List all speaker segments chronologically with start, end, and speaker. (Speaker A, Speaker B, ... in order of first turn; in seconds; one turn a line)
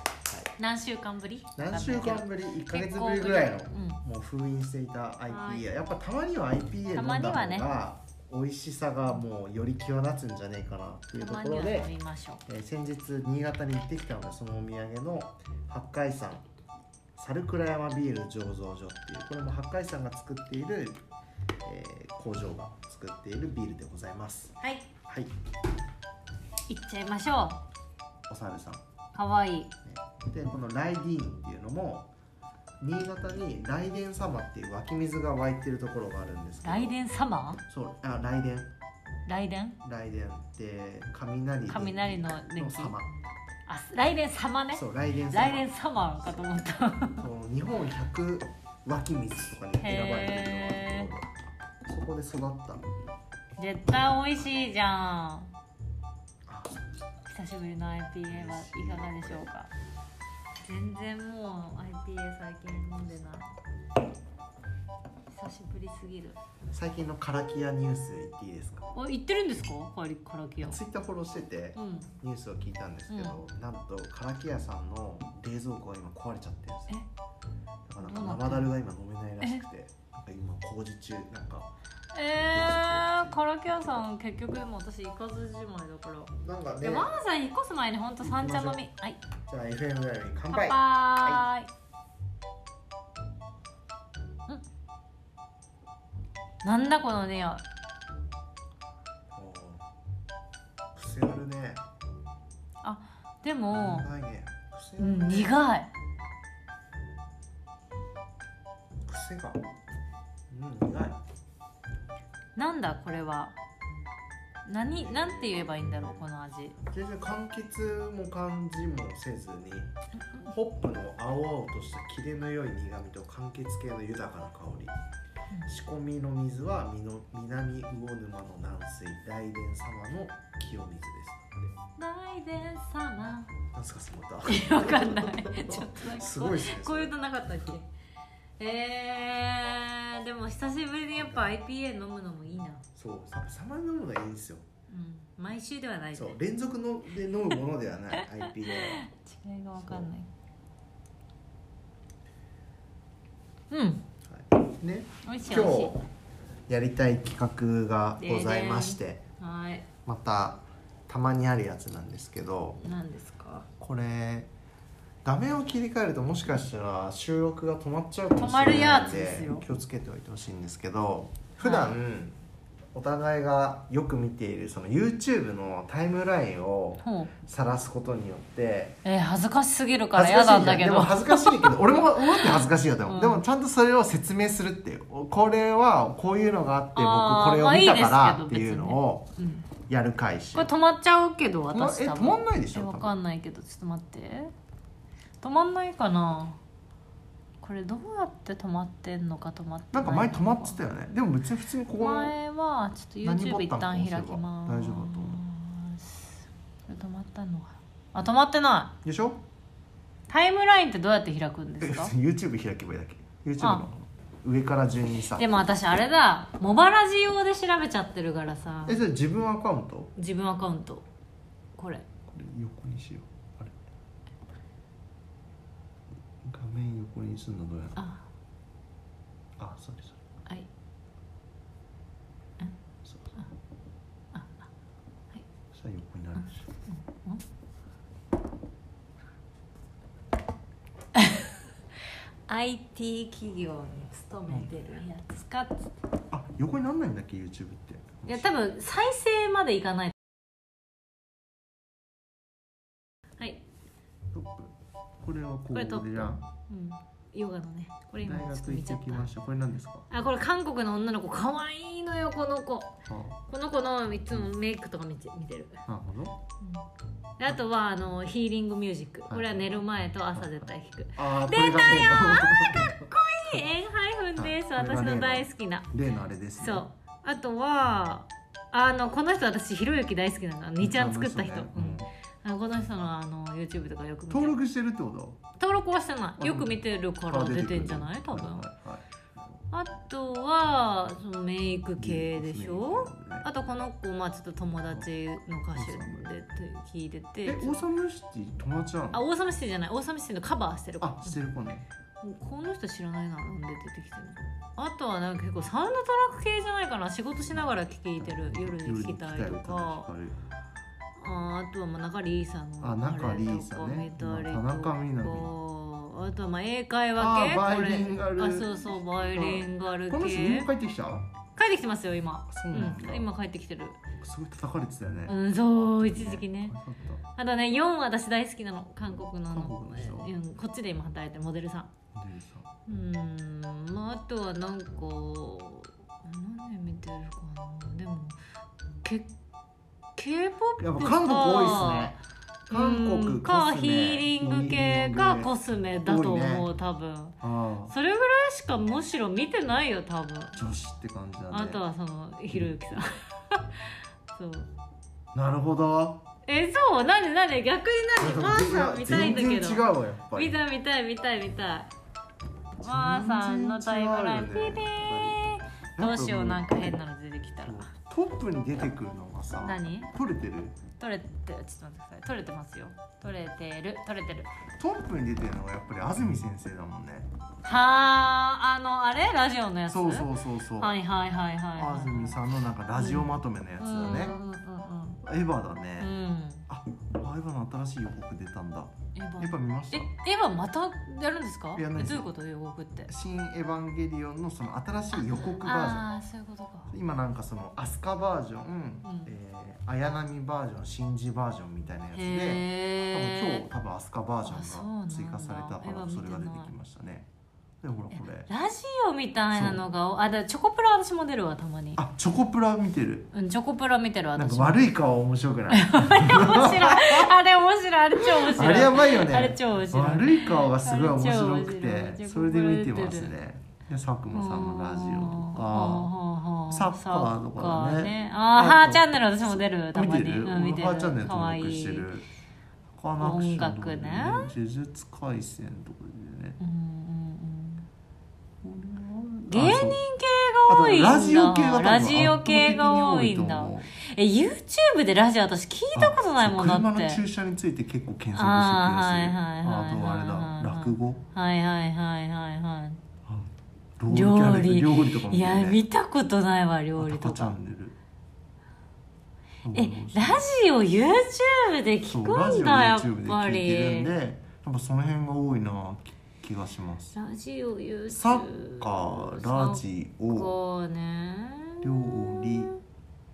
Speaker A: 0.6-4.0
Speaker B: 1.6-11.9
Speaker A: 5.3-5.7
Speaker A: 6.9-7.7
Speaker A: 11.2-12.4
Speaker B: 12.5-16.4
Speaker B: 17.2-21.0
Speaker B: 21.6-24.6
Speaker A: 24.6-24.9
Speaker A: 26.7-27.6
Speaker B: 28.3-28.8
Speaker A: 29.1-29.7
Speaker B: 29.8-32.1
Speaker B: 32.8-37.0
Speaker A: 36.6-37.6
Speaker B: 37.7-38.7
Speaker A: 39.2-39.8
Speaker B: 39.8-43.1
Speaker A: 41.7-43.0
Speaker A: 43.7-47.2
Speaker B: 44.7-45.7
Speaker B: 47.2-51.3
Speaker A: 49.8-51.1
Speaker B: 51.9-52.8
Speaker A: 53.6-55.5
Speaker B: 56.5-56.9
Speaker A: 57.2-59.7
Speaker B: 58.3-59.5
Speaker A: 60.6-63.5
Speaker A: 65.3-66.4
Speaker B: 66.7-68.9
Speaker A: 68.9-70.8
Speaker B: 70.6-77.0
Speaker A: 71.8-72.1
Speaker A: 73.1-73.4
Speaker B: 77.9-81.7
Speaker A: 78.0-78.7
Speaker A: 82.1-89.2
Speaker B: 82.5-84.0
Speaker B: 86.4-87.1
Speaker B: 88.2-88.8
Speaker B: 89.5-91.4
Speaker A: 90.5-91.7
Speaker A: 96.6-97.6
Speaker B: 99.3-99.9
Speaker B: 100.9-101.8
Speaker A: 102.8-104.1
Speaker B: 103.7-105.6
Speaker A: 105.0-105.9
Speaker B: 109.0-109.6
Speaker B: 110.5-111.2
Speaker A: 112.5-113.5
Speaker A: 114.7-116.8
Speaker B: 114.9-116.2
Speaker B: 116.8-124.9
Speaker B: 125.7-131.7
Speaker A: 132.0-133.5
Speaker B: 133.7-137.2
Speaker A: 134.5-137.9
Speaker A: 138.6-142.8
Speaker B: 141.2-141.6
Speaker B: 143.0-144.6
Speaker A: 144.9-146.3
Speaker B: 146.1-149.0
Speaker A: 148.2-150.3
Speaker B: 149.8-150.1
Speaker A: 153.7-154.0
Speaker B: 154.3-156.0
Speaker A: 155.2-155.9
Speaker B: 156.7-159.2
Speaker A: 158.2-159.9
Speaker B: 160.1-162.8
Speaker A: 162.8-163.7
Speaker B: 163.8-164.5
Speaker B: 165.2-172.3
Speaker A: 168.4-169.7
Speaker A: 171.6-172.0
Speaker B: 172.9-179.0
Speaker A: 177.0-177.3
Speaker A: 179.0-183.4
Speaker B: 180.1-189.3
Speaker A: 186.9-189.7
Speaker B: 189.9-190.7
Speaker A: 190.5-194.5
Speaker B: 191.7-193.2
Speaker A: 195.4-196.6
Speaker A: 197.6-200.8
Speaker B: 199.9-202.3
Speaker A: 201.9-208.9
Speaker B: 203.2-205.4
Speaker B: 209.0-209.4
Speaker A: 210.3-212.1
Speaker B: 211.8-215.6
Speaker A: 213.6-213.8
Speaker A: 215.3-219.0
Speaker B: 218.8-220.1
Speaker A: 220.2-221.0
Speaker A: 221.8-222.1
Speaker B: 222.3-223.8
Speaker B: 226.4-228.0
Speaker A: 228.0-228.2
Speaker B: 229.6-230.2
Speaker B: 233.0-233.4
Speaker A: 234.3-234.7
Speaker B: 235.7-236.7
Speaker A: 236.4-237.4
Speaker A: 241.2-241.5
Speaker A: 242.5-245.9
Speaker B: 246.3-248.5
Speaker A: 248.3-250.2
Speaker B: 254.3-256.4
Speaker A: 255.7-259.3
Speaker B: 258.2-260.1
Speaker A: 260.1-262.9
Speaker B: 263.1-263.4
Speaker A: 263.5-265.8
Speaker B: 265.9-266.4
Speaker A: 266.6-266.9
Speaker A: 267.4-275.9
Speaker B: 269.3-269.7
Speaker B: 270.3-273.1
Speaker B: 274.4-276.9
Speaker A: 276.6-284.6
Speaker B: 280.8-282.1
Speaker B: 284.3-285.4
Speaker A: 285.6-288.7
Speaker B: 286.4-289.5
Speaker A: 289.7-297.9
Speaker B: 292.0-293.5
Speaker B: 295.7-296.3
Speaker B: 297.5-299.2
Speaker A: 299.1-301.4
Speaker B: 301.0-301.9
Speaker A: 302.2-310.1
Speaker B: 307.5-310.4
Speaker A: 311.2-320.7
Speaker B: 312.8-315.5
Speaker B: 317.2-321.3
Speaker A: 321.6-324.0
Speaker B: 322.5-323.3
Speaker B: 324.2-327.2
Speaker A: 325.3-326.8
Speaker A: 327.4-331.9
Speaker B: 329.5-330.3
Speaker B: 332.1-332.7
Speaker A: 332.9-338.4
Speaker A: 339.0-339.3
Speaker A: 340.2-342.2
Speaker B: 340.8-342.2
Speaker A: 342.7-347.4
Speaker B: 342.7-346.7
Speaker B: 347.4-347.9
Speaker A: 347.9-350.6
Speaker B: 350.6-351.8
Speaker A: 351.5-353.8
Speaker A: 354.4-354.7
Speaker B: 355.3-356.2
Speaker A: 356.5-361.9
Speaker B: 358.2-360.6
Speaker B: 362.8-365.4
Speaker A: 362.8-367.9
Speaker B: 366.0-367.0
Speaker B: 367.6-370.8
Speaker A: 369.6-370.1
Speaker A: 371.0-374.5
Speaker B: 374.8-377.3
Speaker A: 377.6-382.4
Speaker B: 379.9-380.9
Speaker B: 381.8-384.4
Speaker A: 382.9-385.2
Speaker B: 385.2-386.1
Speaker A: 386.0-386.7
Speaker B: 386.7-390.1
Speaker A: 389.1-393.1
Speaker B: 391.8-392.3
Speaker B: 393.1-396.1
Speaker A: 395.1-396.9
Speaker B: 396.9-407.3
Speaker A: 399.1-399.4
Speaker A: 402.1-403.7
Speaker A: 404.4-406.7
Speaker B: 407.8-408.5
Speaker A: 408.1-412.0
Speaker B: 409.5-409.8
Speaker B: 412.0-413.3
Speaker A: 413.3-414.8
Speaker B: 414.4-417.3
Speaker A: 415.7-423.3
Speaker B: 418.4-426.1
Speaker A: 424.3-432.1
Speaker B: 426.7-432.3
Speaker B: 433.0-436.6
Speaker A: 433.2-434.6
Speaker A: 436.6-437.9
Speaker B: 438.6-440.0
Speaker A: 439.5-447.2
Speaker B: 440.7-443.9
Speaker B: 445.9-451.2
Speaker A: 448.3-453.0
Speaker B: 453.3-455.8
Speaker A: 454.1-457.6
Speaker B: 457.0-458.0
Speaker B: 459.6-460.4
Speaker A: 459.7-464.1
Speaker B: 462.1-467.2
Speaker A: 467.1-472.8
Speaker B: 468.1-470.5
Speaker B: 471.8-472.7